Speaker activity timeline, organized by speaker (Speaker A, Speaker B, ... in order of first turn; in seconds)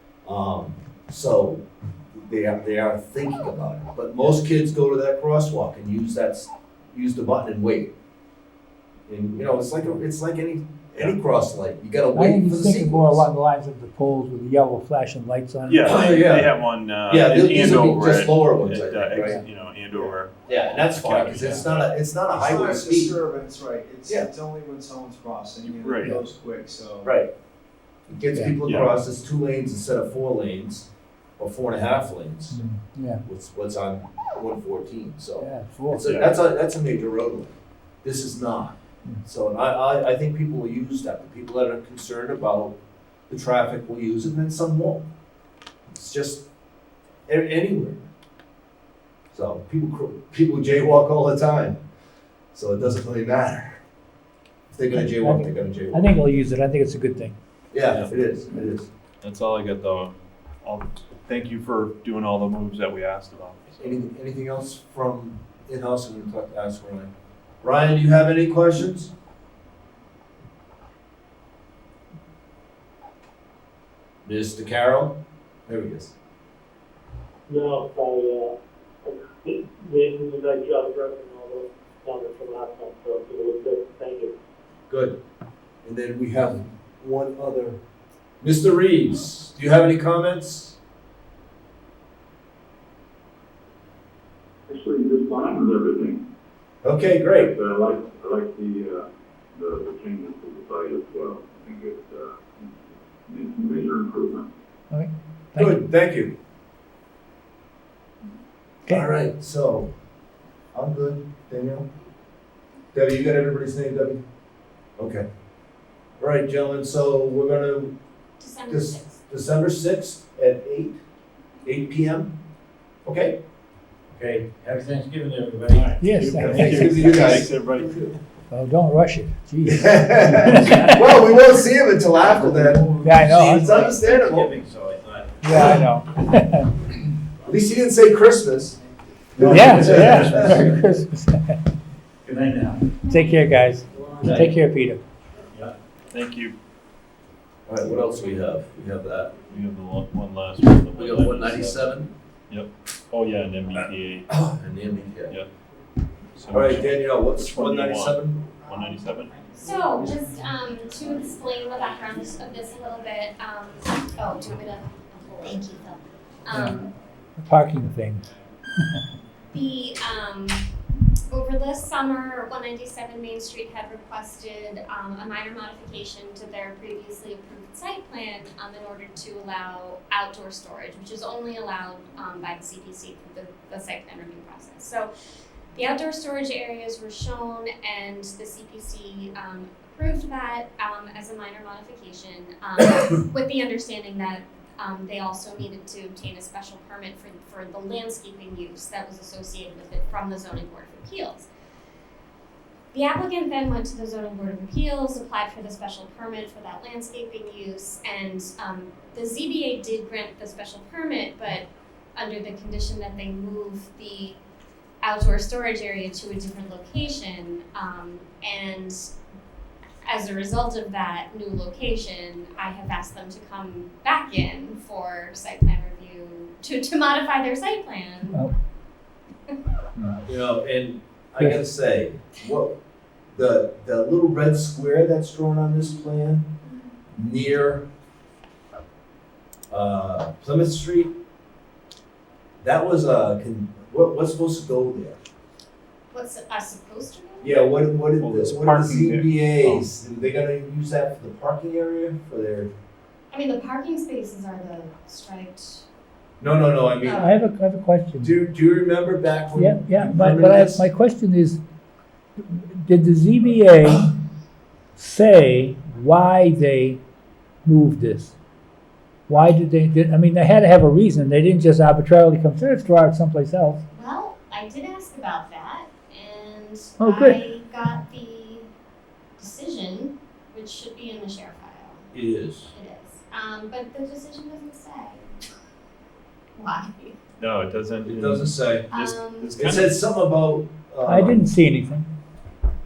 Speaker A: 0.3-1.6, 2.2-7.9, 9.1-13.3, 15.8-16.5, 17.1-19.4, 20.4-23.2, 27.0-27.3, 28.1-30.9, 31.4-32.6, 33.2-42.8, 43.3-45.0, 45.9-46.5, 47.3-48.0, 49.3-51.8, 52.5-53.8, 54.7-56.1, 57.7-58.9, 63.8-67.1, 67.6-69.1, 74.2-75.2, 75.7-76.1, 84.9-85.2, 85.8-87.8, 88.4-90.8, 96.8-97.5, 105.6-106.3, 108.9-109.9, 110.7-111.9, 112.9-114.2, 115.0-115.3, 116.2-117.9, 118.7-121.0, 121.7-122.3, 123.0-123.4, 126.4-128.1, 129.7-134.5, 137.4-138.8, 139.4-140.6, 144.2-144.5, 147.7-149.3, 150.9-152.1, 154.3-155.3, 156.5-158.4, 230.2-232.8, 233.3-236.5, 237.1-237.9, 239.7-241.1, 242.6-245.2, 247.4-252.7, 256.4-257.3, 258.2-260.9, 282.1-282.7, 288.1-288.9, 289.6-291.4
Speaker B: 12.1-15.9, 32.5-33.2, 35.4-36.1, 54.9-57.4, 104.9-105.8, 126.0-127.1, 128.5-131.1, 133.0-133.7, 135.4-136.7, 139.4-141.6, 143.1-145.0, 166.5-166.8, 167.4-168.3, 228.3-228.5, 257.1-258.4, 259.6-261.6, 262.5-264.1, 265.0-267.0, 267.6-268.3, 269.3-273.8, 277.0-277.4, 291.1-292.1
Speaker C: 15.7-21.9, 25.7-26.1, 28.6-28.9, 36.0-36.4, 59.2-63.8, 126.1-128.1, 140.2-140.4, 146.1-146.6, 149.5-151.9, 152.5-154.3, 156.4-159.4, 248.2-249.8, 287.4-290.1
Speaker D: 22.3-27.2
Speaker E: 77.5-78.5, 79.0-84.3
Speaker F: 95.1-96.1, 97.4-99.0, 99.6-102.6, 103.3-104.4
Speaker G: 118.4-119.2, 143.1-143.6, 159.6-166.9, 169.5-170.6, 171.3-185.1, 185.7-201.5, 202.9-214.4, 215.0-219.1, 220.1-228.4, 236.6-236.9, 246.1-247.6, 253.3-255.8, 257.0-257.3, 273.9-278.7, 279.4-282.1, 282.7-285.4, 286.6-287.2, 288.9-289.6
Speaker H: 124.1-127.4, 132.3-135.6, 138.8-140.9, 142.3-142.8, 144.0-144.4, 158.7-163.1, 164.4-164.7